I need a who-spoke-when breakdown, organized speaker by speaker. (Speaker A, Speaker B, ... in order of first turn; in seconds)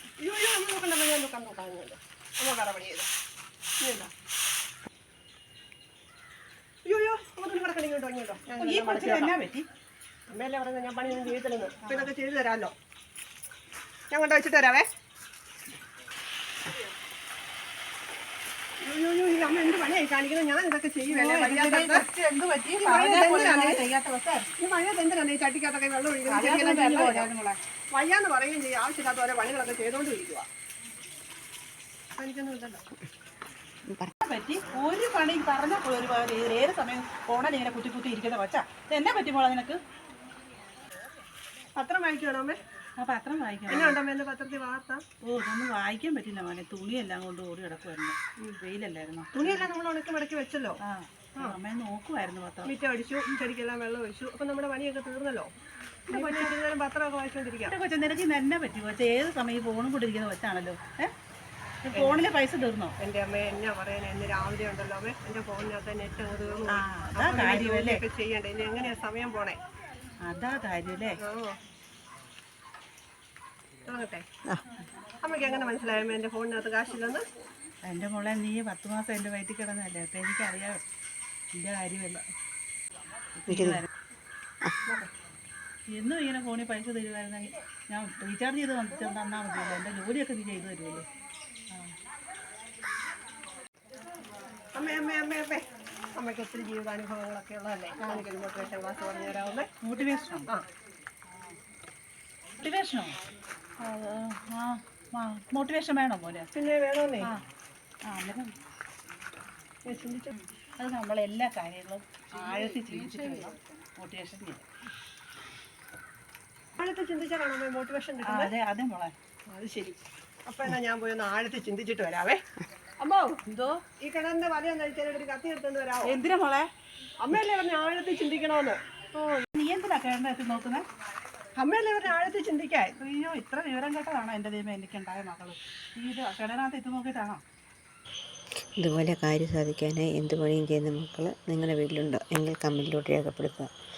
Speaker A: 0.2-3.1, 3.8-4.1, 6.8-9.3, 10.3-12.7, 14.1-14.9, 18.8-22.0, 22.8-23.8, 24.6-27.3, 27.9-30.5, 32.2-32.8, 41.7-42.6, 43.7-45.0, 49.3-50.8, 52.6-55.5, 56.1-57.7, 61.9-62.2, 63.0-69.6, 71.2-71.6, 73.9-74.2, 75.2-77.3, 94.7-95.6, 96.1-99.7, 106.5-107.3, 109.8-110.3, 112.3-113.5, 116.8-118.5, 119.5-122.4, 123.0-123.4, 124.0-126.1, 127.2-129.4, 131.6-133.0
Speaker B: 8.6-9.6, 11.8-12.1, 21.1-24.5, 26.2-27.6, 34.2-39.8, 43.0-44.0, 45.2-49.7, 50.8-52.7, 56.1-56.5, 57.7-61.1, 61.8-62.9, 66.7-68.0, 70.2-71.2, 77.9-80.8, 81.5-82.2, 83.4-83.9, 85.9-91.0, 99.8-100.5, 102.6-103.2, 103.8-106.5, 108.0-108.5, 110.8-114.6, 118.3-119.1, 123.5-123.8, 126.0-126.7, 129.5-130.8, 133.0-137.4
Speaker C: 83.5-83.8, 138.8-143.7